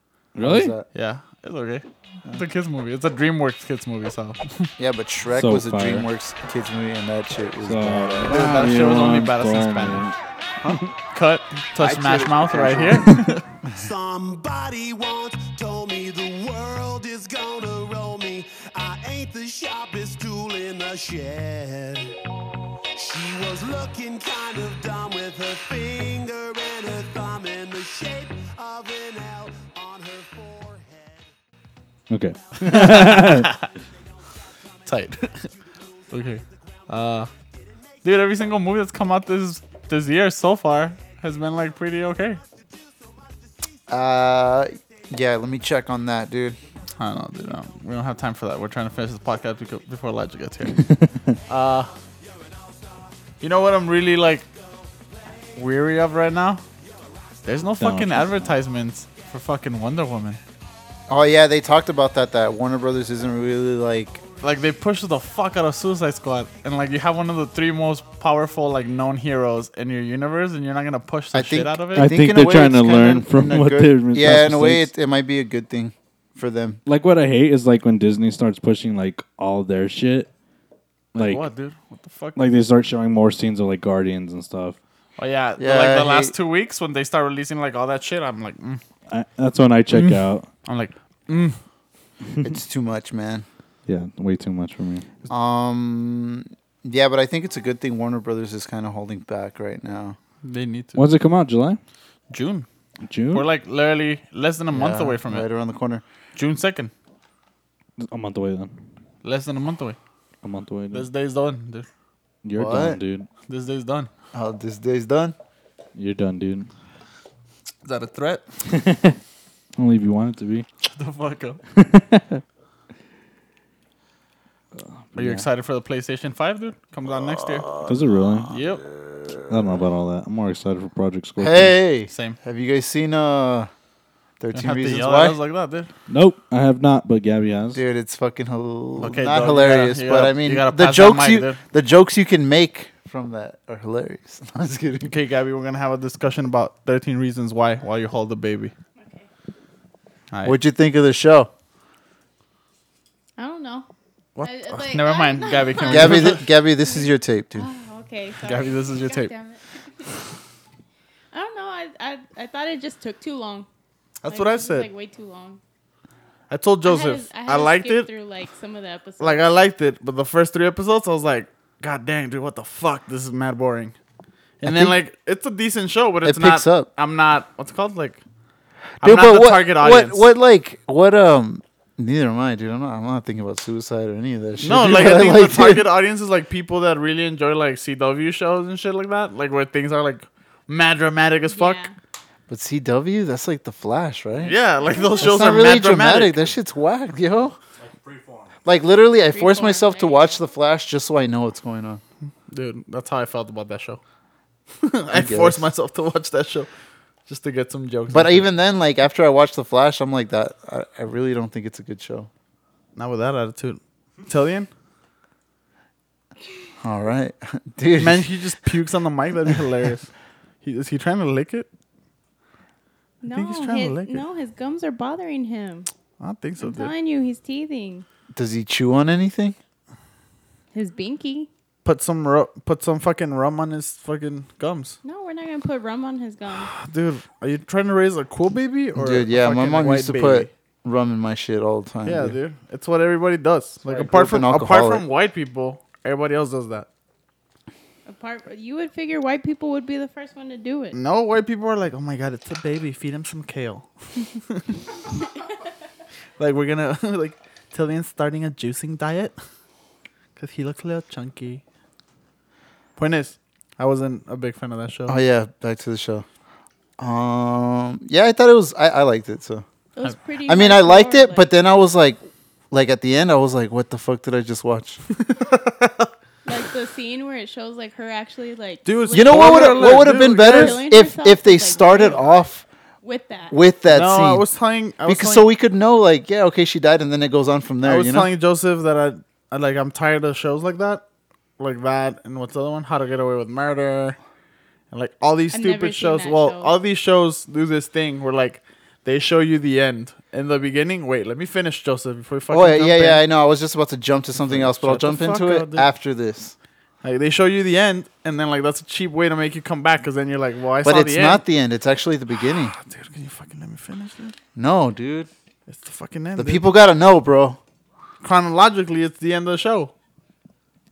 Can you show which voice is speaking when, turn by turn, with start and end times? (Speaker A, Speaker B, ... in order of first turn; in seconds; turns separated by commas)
Speaker A: 0.3-0.7, Speaker B: 0.4-0.9, Speaker C: 0.9-4.7, Speaker B: 4.8-8.6, Speaker A: 5.3-6.1, Speaker A: 7.6-10.2, Speaker C: 8.3-10.1, Speaker C: 11.1-13.4, Speaker B: 11.8-13.0, Speaker D: 13.7-22.1, Speaker D: 22.9-31.3, Speaker A: 32.1-33.5, Speaker C: 32.6-33.7, Speaker D: 34.3-38.2, Speaker C: 34.9-35.5, Speaker C: 36.1-37.3, Speaker C: 38.0-42.4, Speaker D: 42.3-43.7, Speaker B: 43.9-46.6, Speaker C: 47.0-51.9, Speaker A: 50.8-51.4, Speaker D: 52.2-53.3, Speaker C: 53.4-54.5, Speaker D: 54.3-55.6, Speaker C: 55.5-56.6, Speaker D: 56.8-57.7, Speaker C: 57.4-60.4, Speaker A: 57.8-58.5, Speaker B: 61.1-64.2, Speaker C: 64.4-72.1, Speaker B: 71.3-76.8, Speaker A: 71.9-74.9, Speaker A: 76.8-80.3, Speaker C: 81.1-82.4, Speaker A: 81.1-81.5, Speaker A: 82.3-84.8, Speaker C: 85.2-88.8, Speaker B: 85.6-86.3, Speaker A: 89.1-90.5, Speaker C: 89.9-91.6, Speaker B: 92.4-93.4, Speaker A: 93.9-95.0, Speaker B: 95.3-100.2, Speaker C: 100.4-101.0, Speaker A: 101.0-101.8, Speaker C: 102.3-102.7, Speaker A: 103.0-103.5, Speaker C: 103.3-105.5, Speaker B: 104.7-106.0, Speaker C: 106.3-106.9, Speaker A: 108.0-108.7, Speaker C: 109.2-110.0, Speaker A: 110.4-111.1, Speaker C: 110.9-111.9, Speaker A: 112.4-113.3, Speaker B: 112.5-113.0, Speaker C: 113.5-114.1, Speaker B: 114.3-115.3, Speaker A: 116.0-116.7, Speaker C: 117.8-118.4, Speaker A: 118.7-119.2, Speaker A: 119.8-120.7, Speaker C: 120.8-121.6, Speaker A: 121.7-122.4, Speaker A: 124.8-125.4, Speaker C: 125.1-127.7, Speaker A: 127.8-128.5, Speaker C: 128.5-128.8, Speaker A: 129.5-131.8, Speaker B: 131.4-133.7, Speaker C: 132.1-132.4, Speaker B: 134.4-135.4, Speaker C: 134.5-135.9, Speaker A: 136.1-137.8, Speaker B: 137.7-145.1, Speaker C: 139.0-141.6, Speaker C: 145.0-148.7, Speaker E: 149.0-149.2, Speaker C: 150.3-150.6, Speaker B: 150.4-151.5, Speaker E: 153.4-153.8, Speaker C: 154.3-156.4, Speaker E: 154.4-160.1, Speaker B: 155.8-157.7, Speaker C: 158.4-159.3, Speaker E: 161.3-163.7, Speaker C: 164.2-164.9, Speaker E: 164.3-165.6, Speaker C: 166.5-168.1, Speaker E: 166.8-169.5, Speaker C: 169.2-173.9, Speaker C: 174.6-178.2, Speaker B: 174.6-175.0, Speaker B: 176.2-176.9, Speaker C: 179.0-180.3, Speaker B: 179.0-185.8, Speaker C: 184.6-191.9, Speaker E: 191.5-191.9, Speaker B: 192.5-194.5, Speaker C: 194.4-196.5, Speaker E: 194.8-195.4, Speaker B: 195.2-197.6, Speaker A: 197.9-198.4, Speaker B: 198.6-202.0, Speaker E: 199.3-200.3, Speaker C: 202.5-204.0, Speaker C: 204.8-206.7, Speaker B: 205.1-205.7, Speaker C: 207.3-208.4, Speaker B: 208.1-212.3, Speaker C: 212.9-214.7, Speaker B: 216.8-218.3, Speaker C: 218.0-220.1, Speaker C: 220.6-221.7, Speaker E: 223.2-225.9, Speaker C: 223.3-224.2, Speaker C: 226.2-226.9, Speaker E: 226.6-228.0, Speaker B: 228.3-229.6, Speaker E: 230.7-231.5, Speaker C: 231.8-235.0, Speaker E: 235.0-236.7, Speaker C: 236.5-240.5, Speaker B: 238.9-242.3, Speaker C: 242.0-246.9, Speaker B: 243.8-245.0, Speaker E: 248.1-250.9, Speaker C: 250.9-254.8, Speaker C: 256.4-259.3, Speaker C: 260.4-261.6, Speaker C: 263.0-265.2, Speaker B: 265.1-266.2, Speaker B: 267.0-269.6, Speaker E: 269.9-271.5, Speaker B: 270.5-275.0, Speaker C: 275.2-276.1, Speaker E: 276.4-282.3, Speaker C: 278.8-280.8, Speaker B: 279.1-282.6, Speaker E: 283.0-283.6, Speaker B: 283.5-284.5, Speaker C: 283.9-285.5, Speaker B: 285.1-288.3, Speaker C: 287.8-291.0, Speaker C: 291.6-294.2, Speaker C: 294.9-303.2, Speaker E: 295.5-296.8, Speaker B: 302.5-306.5, Speaker C: 304.4-305.9, Speaker C: 307.0-311.4, Speaker B: 310.8-312.7, Speaker C: 312.4-314.3, Speaker B: 314.6-315.3, Speaker C: 315.7-316.6, Speaker B: 316.4-317.6, Speaker C: 318.2-319.9